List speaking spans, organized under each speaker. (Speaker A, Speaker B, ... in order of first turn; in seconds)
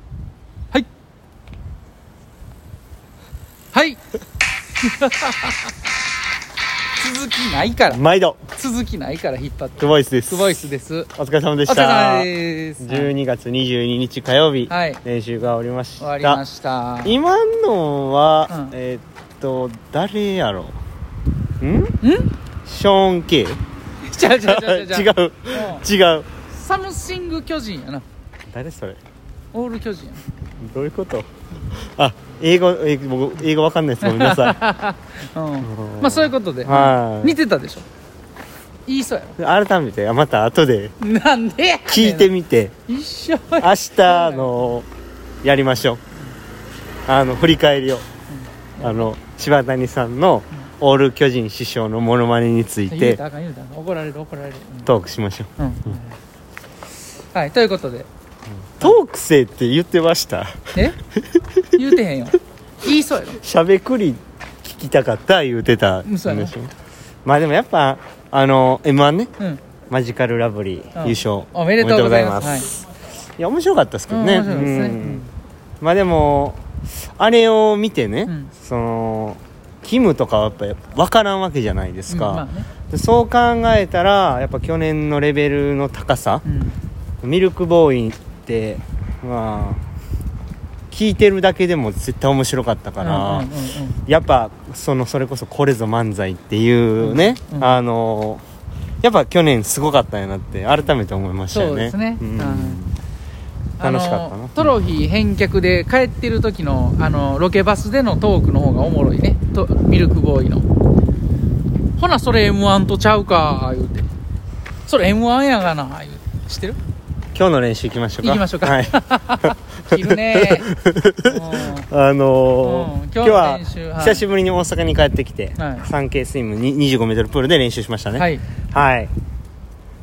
Speaker A: 3.7-4.0, 4.8-5.7, 7.0-8.0, 8.5-11.1, 11.7-13.1, 14.7-15.0, 16.0-17.2, 18.5-18.7, 22.0-22.3, 24.0-25.8, 26.5-28.0, 29.5-30.3, 34.0-37.9, 38.9-39.4, 41.0-42.3, 42.9-44.7, 48.3-49.1, 52.9-54.9, 55.6-56.2, 57.3-58.1, 61.7-63.4, 66.0-66.5, 71.0-72.7, 74.1-75.3, 78.2-78.5, 82.1-82.7, 86.4-86.8, 93.0-94.0, 97.0-97.8, 101.5-102.8, 103.8-110.7, 112.0-114.1, 114.8-116.8, 118.2-121.9, 122.6-124.2, 125.6-125.9, 128.1-128.4
Speaker B: 7.8-8.4, 9.8-10.6, 11.1-16.4, 17.0-20.8, 21.6-21.9, 22.6-23.6, 24.2-26.3, 28.5-29.0, 30.6-31.3, 31.9-34.6, 35.6-37.4, 39.4-40.9, 41.9-42.7, 43.6-44.9, 45.4-46.0, 47.0-48.0, 48.8-53.2, 54.8-55.5, 58.8-60.7, 63.4-66.7, 67.2-69.3, 69.9-72.7, 73.4-75.2, 75.8-86.4, 87.2-89.8, 90.9-93.5, 94.1-98.4, 99.0-103.0, 103.8-104.7, 117.3-129.1